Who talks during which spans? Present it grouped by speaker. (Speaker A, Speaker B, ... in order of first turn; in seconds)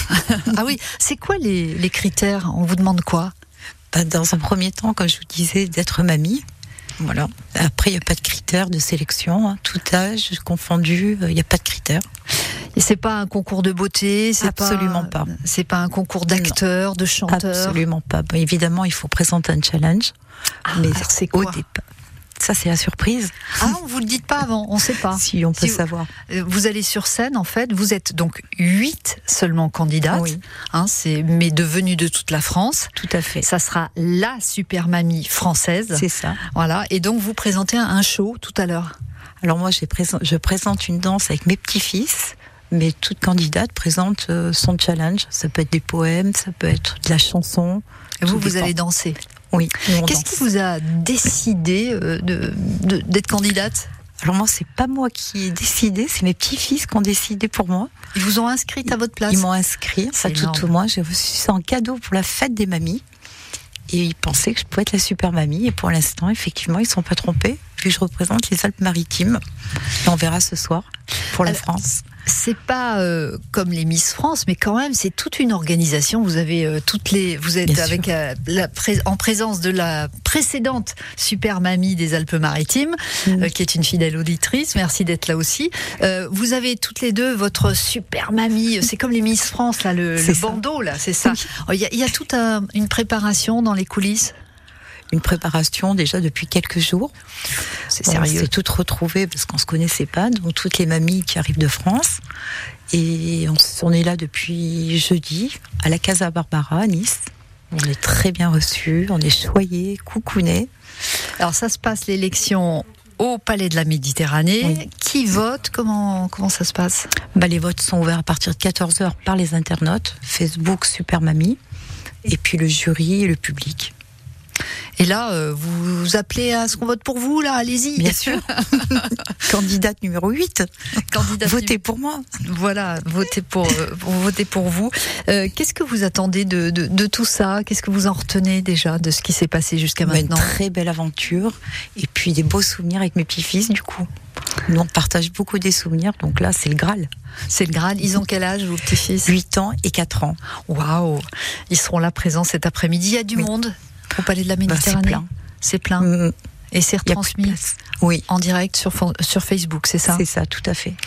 Speaker A: 0.1-3.3, 12.7-17.8, 20.6-21.6, 23.6-38.9, 48.2-49.2, 49.8-53.9, 58.1-59.5, 60.1-60.7, 72.2-94.3, 97.9-98.5, 111.4-117.1, 125.0-128.6, 131.1-131.8, 132.4-140.5, 147.5-149.3, 150.7-156.1, 156.7-157.6, 158.3-160.2
Speaker B: 3.9-6.4, 7.0-12.0, 14.4-15.3, 16.3-16.6, 17.3-20.1, 20.7-21.8, 22.4-23.6, 25.1-26.1, 30.1-30.4, 33.0-33.5, 35.9-36.4, 39.4-48.7, 49.5-50.4, 54.2-57.9, 59.3-63.0, 63.9-69.4, 70.0-72.0, 77.6-78.0, 83.2-83.5, 90.2-90.6, 95.1-97.1, 98.0-102.2, 102.9-110.7, 117.3-121.6, 122.2-123.9, 128.0-130.7, 131.4-132.3, 140.0-144.1, 144.7-147.1, 149.2-150.4, 154.7-155.3, 156.0-156.3, 157.1-158.2, 160.1-161.0